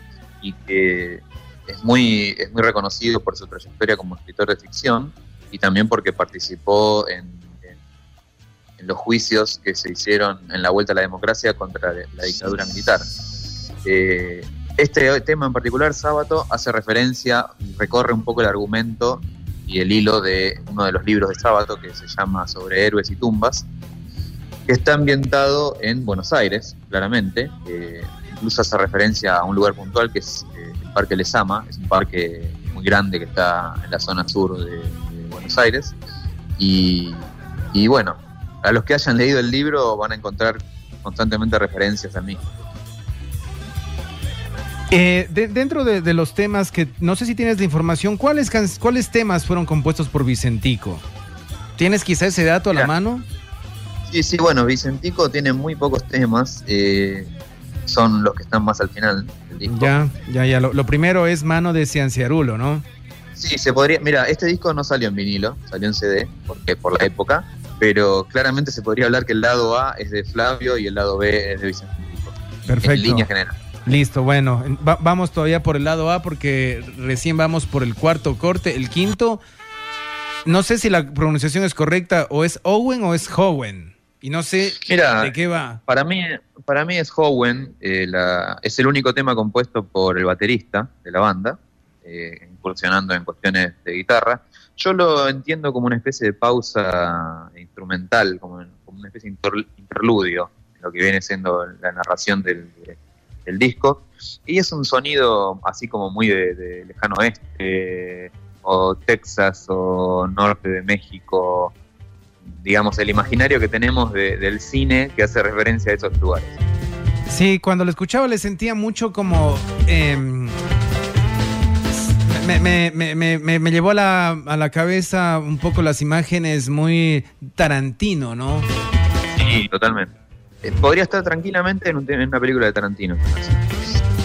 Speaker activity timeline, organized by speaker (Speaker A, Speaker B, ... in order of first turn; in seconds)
Speaker A: 0.4-7.8, 8.8-13.1, 13.8-23.7, 24.7-36.0, 36.6-42.4, 54.1-57.3, 57.9-59.9, 63.4-73.5, 84.8-85.3, 85.9-111.7, 112.6-116.6, 129.4-133.8
Speaker B: 44.9-51.0, 51.8-53.2, 59.7-62.8, 72.7-73.3, 73.9-79.4, 80.5-85.8, 117.3-120.6, 121.9-128.7